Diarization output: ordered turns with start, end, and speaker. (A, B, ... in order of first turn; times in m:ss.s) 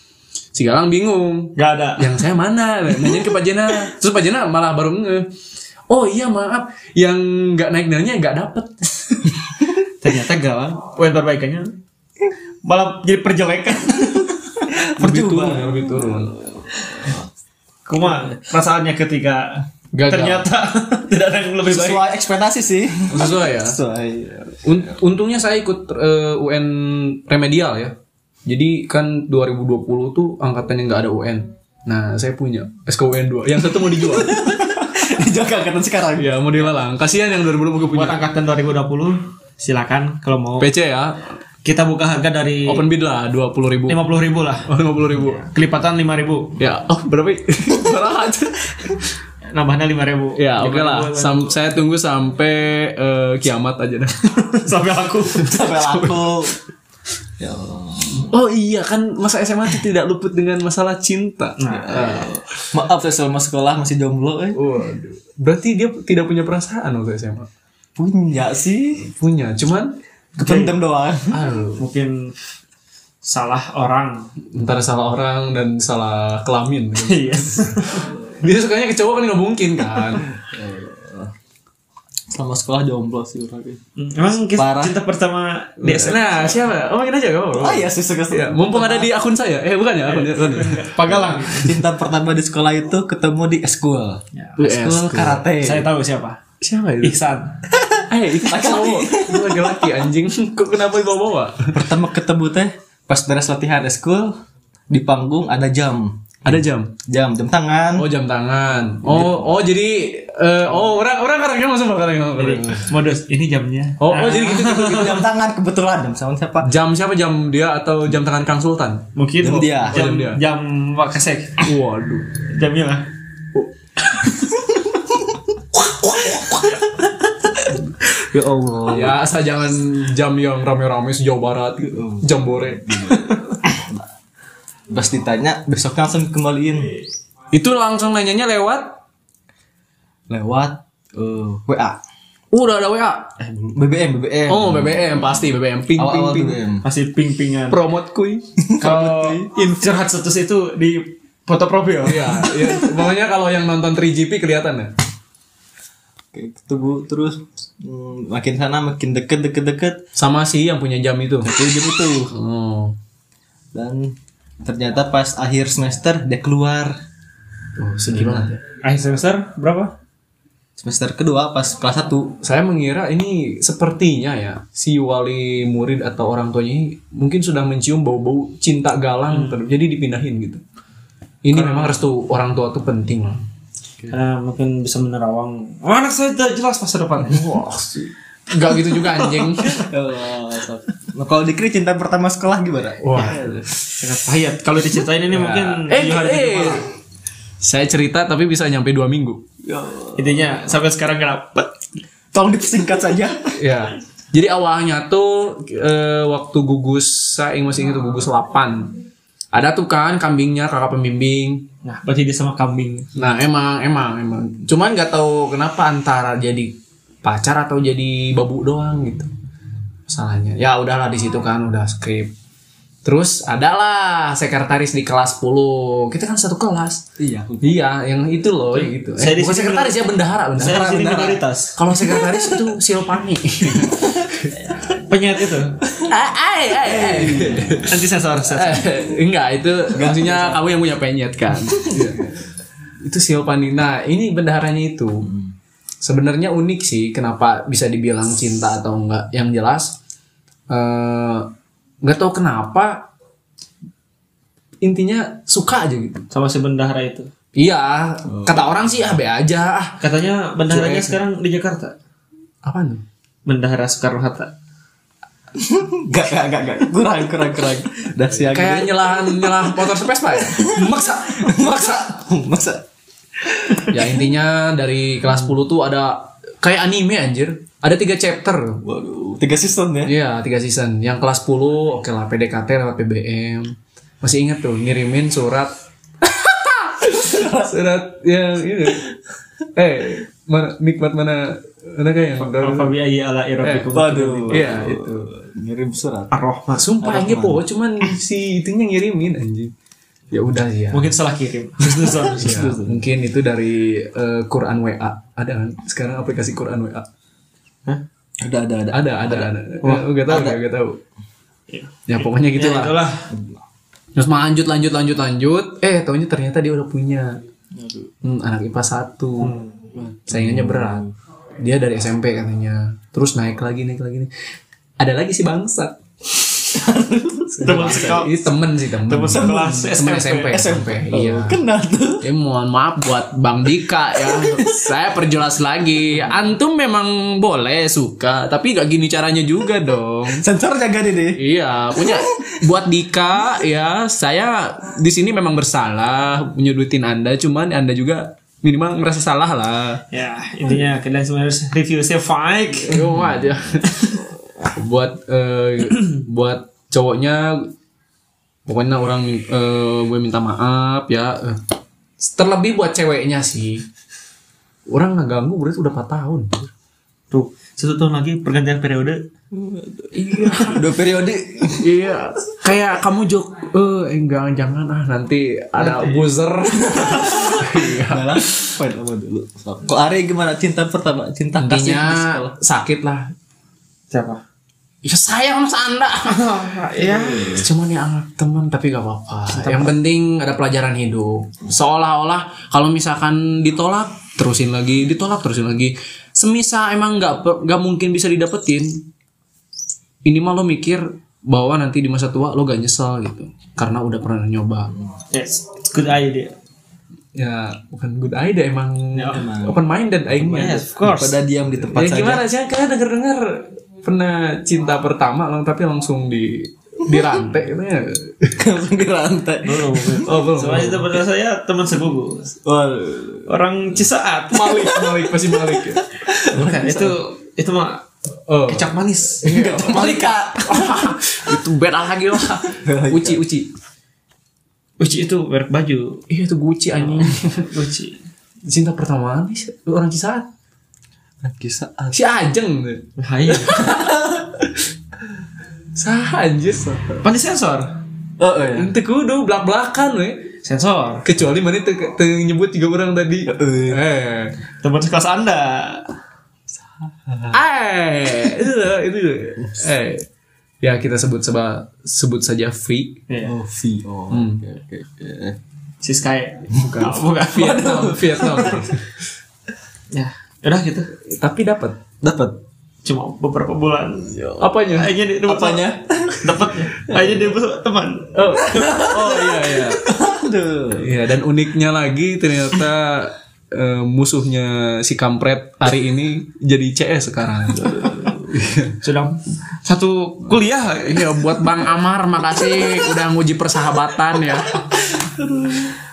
0:00.5-0:05.3 A
0:01.6-0:02.1 B
0:05.9-0:09.4 A
0:10.0-0:11.8 B
0:12.6-0:14.3 B
0:14.6-0:17.2 C
0:15.0-0:16.3 A
0:17.9-0:22.0 B
0:19.9-0:20.5 A
0:21.6-0:24.9 C
0:23.1-0:23.8 A
0:24.6-0:34.4 A
0:33.8-0:36.5 C
0:36.2-0:38.2 A
0:37.9-0:40.7 B
0:40.6-0:41.4 A
0:41.6-0:42.9 B
0:42.7-0:44.0 A
0:43.9-0:44.7 B
0:44.7-0:45.4 A
0:45.3-0:46.6 B
0:46.6-0:49.1 A
0:49.5-0:51.6 B
0:50.4-0:54.6 A
0:54.5-0:55.6 B
0:55.4-0:56.6 C
0:55.8-0:56.3 A
0:57.4-0:58.3 C
0:58.2-1:02.4 A
1:01.6-1:02.3 B
1:01.7-1:04.6 C
1:04.5-1:07.5 A
1:08.0-1:09.1 C
1:09.0-1:10.0 A
1:10.4-1:10.8 B
1:10.4-1:11.4 C
1:11.3-1:11.8 A
1:11.8-1:12.3 B
1:13.2-1:14.3 B
1:14.5-1:20.3 A
1:17.0-1:18.1 B
1:20.2-1:21.3 C
1:22.3-1:23.8 C
1:24.0-1:26.6 B
1:24.6-1:25.0 C
1:25.8-1:31.6 A
1:27.5-1:29.1 C
1:30.0-1:31.7 B
1:31.4-1:35.9 C
1:34.3-1:34.6 B
1:34.6-1:35.4 A
1:35.6-1:36.4 B
1:36.6-1:37.2 A
1:37.0-1:37.6 B
1:37.8-1:40.0 C
1:38.0-1:41.8 A
1:41.7-1:44.4 C
1:44.9-1:48.1 C
1:46.4-1:46.9 A
1:48.0-1:52.9 A
1:49.0-1:49.4 C
1:52.4-1:55.2 B
1:54.0-1:55.2 A
1:54.9-1:56.7 C
1:56.6-1:59.1 A
1:59.2-2:01.7 B
1:59.4-2:00.0 C
1:59.8-2:00.4 A
2:01.6-2:02.3 A
2:02.5-2:03.1 B
2:05.8-2:06.8 A
2:08.0-2:09.2 C
2:08.9-2:13.3 A
2:11.9-2:14.1 C
2:14.9-2:17.0 C
2:17.5-2:19.0 A
2:20.3-2:22.0 C
2:22.5-2:23.4 A
2:23.4-2:25.2 C
2:24.5-2:26.6 A
2:26.0-2:26.8 C
2:26.8-2:27.8 B
2:27.7-2:30.0 A
2:28.6-2:29.4 C
2:28.8-2:32.6 B
2:32.0-2:34.9 A
2:36.3-2:40.0 C
2:40.2-2:41.7 A
2:41.4-2:42.3 C
2:42.3-2:43.0 A
2:43.7-2:47.0 C
2:47.8-2:48.6 A
2:48.2-2:48.5 C
2:48.8-2:50.0 B
2:50.8-2:52.4 C
2:52.4-3:00.6 A
2:59.3-2:59.6 B
3:01.4-3:03.4 A
3:01.5-3:02.0 B
3:04.1-3:08.1 B
3:07.3-3:07.8 A
3:08.5-3:09.8 A
3:09.3-3:09.9 B
3:09.9-3:13.8 C
3:13.0-3:13.5 A
3:14.0-3:16.9 B
3:15.3-3:16.8 A
3:17.6-3:19.4 A
3:19.6-3:20.5 C
3:20.2-3:21.8 B
3:22.3-3:23.6 C
3:23.6-3:29.0 A
3:29.5-3:31.7 A
3:31.8-3:33.2 B
3:33.2-3:39.3 A
3:40.1-3:42.3 A
3:43.0-3:47.0 A
3:47.2-3:47.8 C
3:47.6-3:54.6 A
3:48.7-3:50.0 B
3:50.6-3:51.8 B
3:50.9-3:51.3 C
3:52.1-3:52.6 C
3:55.0-3:55.8 B
3:56.0-4:02.3 A
3:56.8-3:57.9 C
3:57.9-3:58.8 B
3:59.9-4:00.6 C
4:01.7-4:02.1 C
4:03.0-4:05.3 A
4:06.0-4:10.0 A
4:10.7-4:11.5 A
4:12.0-4:13.1 A
4:14.8-4:16.3 A
4:16.3-4:17.3 B
4:17.6-4:20.0 A
4:18.3-4:18.7 C
4:20.0-4:22.0 B
4:20.7-4:21.2 A
4:22.6-4:23.0 A
4:23.5-4:24.5 B
4:25.6-4:29.7 C
4:28.5-4:32.0 A
4:30.5-4:32.8 C
4:33.4-4:34.0 C
4:33.9-4:38.8 A
4:38.8-4:40.2 C
4:40.0-4:49.1 A
4:47.2-4:47.7 C
4:49.8-4:53.0 A
4:52.4-4:54.8 B
4:53.6-4:53.9 A
4:53.9-4:56.3 C
4:54.5-4:55.3 A
4:56.3-4:56.9 B
4:56.8-4:59.7 A
4:57.0-4:57.6 C
5:00.3-5:01.1 A
5:00.9-5:02.6 B
5:02.2-5:03.0 C
5:02.3-5:07.1 A
5:08.4-5:09.5 C
5:08.9-5:11.0 A
5:09.8-5:10.1 B
5:10.3-5:10.6 C
5:11.7-5:13.3 B
5:12.1-5:13.0 A
5:13.3-5:13.6 C
5:14.2-5:17.4 A
5:17.7-5:18.1 C
5:18.2-5:19.5 A
5:19.4-5:19.8 B
5:19.9-5:21.1 C
5:20.3-5:21.1 A
5:21.6-5:24.3 A
5:25.0-5:26.0 A
5:26.7-5:28.0 C
5:27.5-5:31.6 A
5:27.6-5:28.5 B
5:29.1-5:30.7 B
5:29.3-5:29.7 C
5:30.5-5:32.3 C
5:32.2-5:40.4 A
5:34.2-5:34.9 C
5:40.3-5:41.4 C
5:41.4-5:50.0 A
5:42.0-5:42.5 C
5:50.1-5:53.1 B
5:52.8-5:57.7 A
5:58.7-6:01.6 A
6:02.2-6:03.8 A
6:04.9-6:06.7 A
6:07.3-6:09.2 B
6:09.5-6:11.9 C
6:10.2-6:10.8 A
6:11.7-6:18.7 A
6:15.8-6:16.2 B
6:16.8-6:22.5 C
6:21.6-6:23.3 A
6:24.1-6:24.4 B
6:25.0-6:26.7 A
6:26.3-6:27.6 B
6:27.0-6:27.7 C
6:27.5-6:39.1 A
6:40.2-6:44.9 A
6:45.3-6:46.6 B
6:47.4-6:50.9 A
6:49.2-6:49.4 B
6:49.3-6:49.8 C
6:50.4-6:51.4 B
6:51.0-6:52.4 C
6:51.9-6:58.6 A
6:58.6-7:00.4 C
6:59.6-7:02.6 B
7:00.2-7:01.1 A
7:02.6-7:03.5 C
7:03.5-7:05.0 B
7:04.5-7:06.0 A
7:06.2-7:07.2 C
7:06.5-7:08.0 B
7:08.5-7:13.7 A
7:08.7-7:10.0 B
7:09.5-7:10.9 C
7:12.8-7:13.4 C
7:15.0-7:16.2 B
7:16.3-7:17.7 A
7:17.0-7:18.2 B
7:18.7-7:20.5 A
7:21.4-7:22.2 C
7:22.1-7:24.7 A
7:23.2-7:23.9 B
7:26.0-7:27.2 A
7:27.2-7:28.0 B
7:28.4-7:28.9 C
7:28.7-7:30.5 A
7:30.6-7:31.3 B
7:31.2-7:34.6 A
7:33.5-7:34.0 C
7:34.8-7:36.1 B
7:37.0-7:37.6 C
7:37.5-7:40.3 A
7:40.8-7:43.2 A
7:43.3-7:43.6 B
7:43.4-7:45.6 C
7:44.3-7:44.6 A
7:46.0-7:47.9 B
7:46.8-7:49.0 A
7:47.6-7:48.9 C
7:50.1-7:51.1 B
7:51.2-7:52.0 A
7:52.2-7:52.6 C
7:53.0-7:54.4 B
7:54.3-7:54.8 C
7:54.6-7:55.1 A
7:54.9-7:58.6 B
7:55.4-7:56.5 C
7:58.3-8:00.0 A
7:58.6-8:01.1 C
8:01.0-8:09.0 A
8:07.8-8:08.4 C
8:09.0-8:11.4 B
8:11.0-8:14.9 A
8:15.2-8:15.9 C